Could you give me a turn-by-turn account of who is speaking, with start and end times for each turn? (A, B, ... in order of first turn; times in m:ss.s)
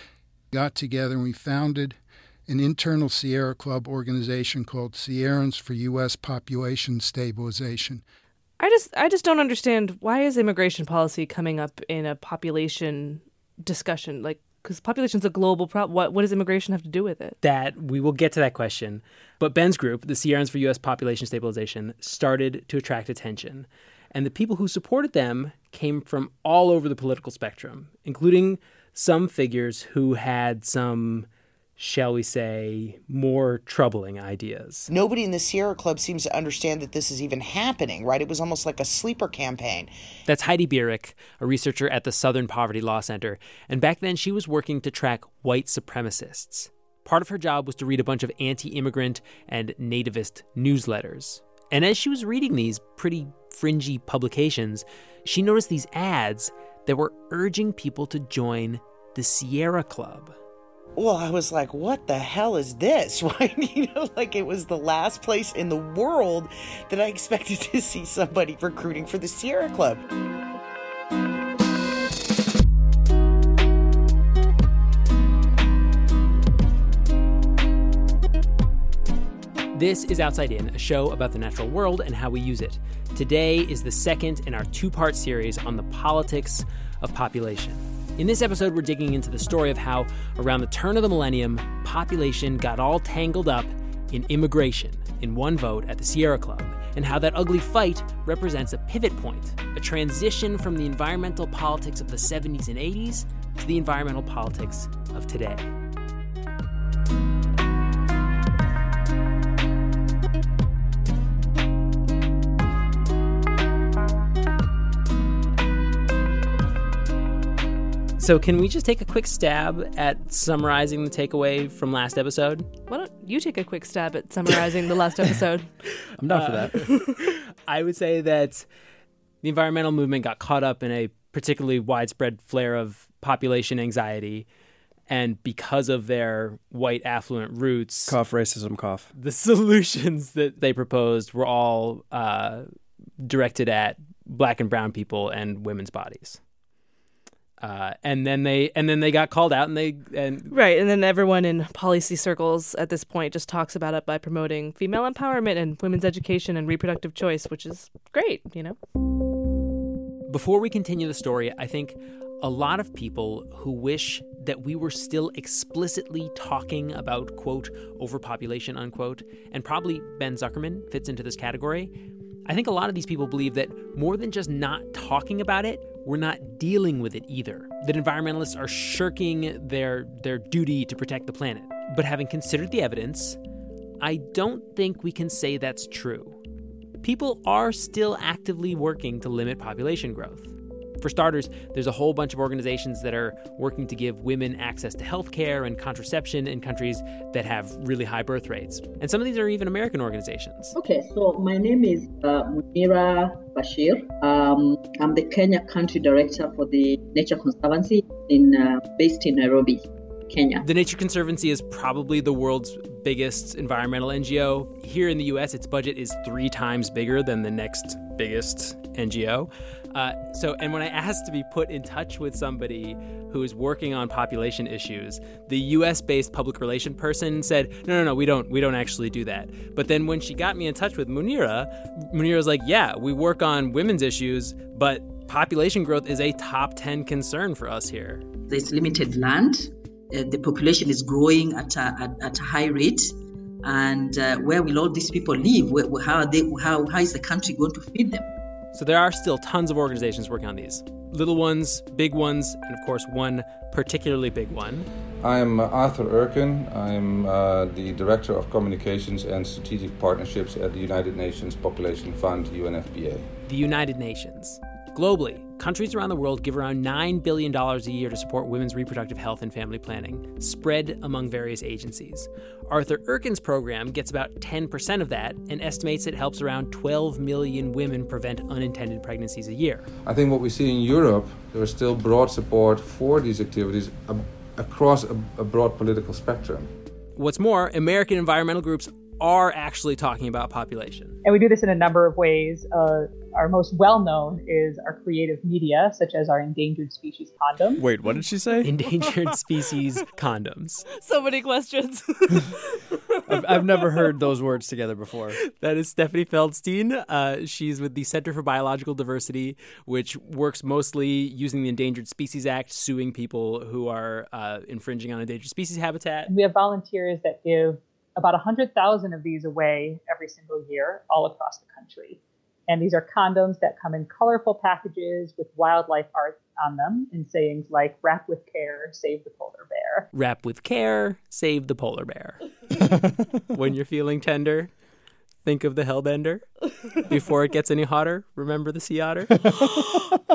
0:00.5-0:08.0 A
0:08.6-0:17.4 B
0:17.4-0:34.9 C
0:34.9-0:39.9 D
0:40.2-1:00.3 C
1:01.0-1:10.0 D
1:19.7-1:45.7 C
1:58.2-2:02.7 C
2:02.9-2:05.7 B
2:06.2-2:06.8 E
2:06.3-2:08.6 C
2:06.8-2:07.1 B
2:09.4-2:14.5 C
2:15.1-2:18.2 C
2:18.1-2:19.1 E
2:19.1-2:22.6 C
2:23.2-2:26.4 C
2:27.6-2:30.5 C
2:30.5-2:38.8 B
2:40.3-2:51.9 C
2:52.4-3:03.4 C
3:04.0-3:06.4 C
3:07.0-3:20.8 C
3:20.8-3:30.6 F
3:30.6-3:58.2 C
3:58.5-4:08.3 F
4:08.7-4:14.9 C
4:15.2-4:23.3 G
4:23.5-4:39.9 C
4:40.0-4:46.7 G
4:47.2-4:51.2 C
4:51.2-4:57.8 H
4:57.8-4:58.7 E
4:58.6-5:00.8 C
5:00.9-5:02.8 B
5:03.3-5:05.4 E
5:05.4-5:16.3 C
5:16.3-5:30.1 H
5:30.1-5:32.4 C
5:33.5-5:34.7 C
5:35.4-5:39.5 C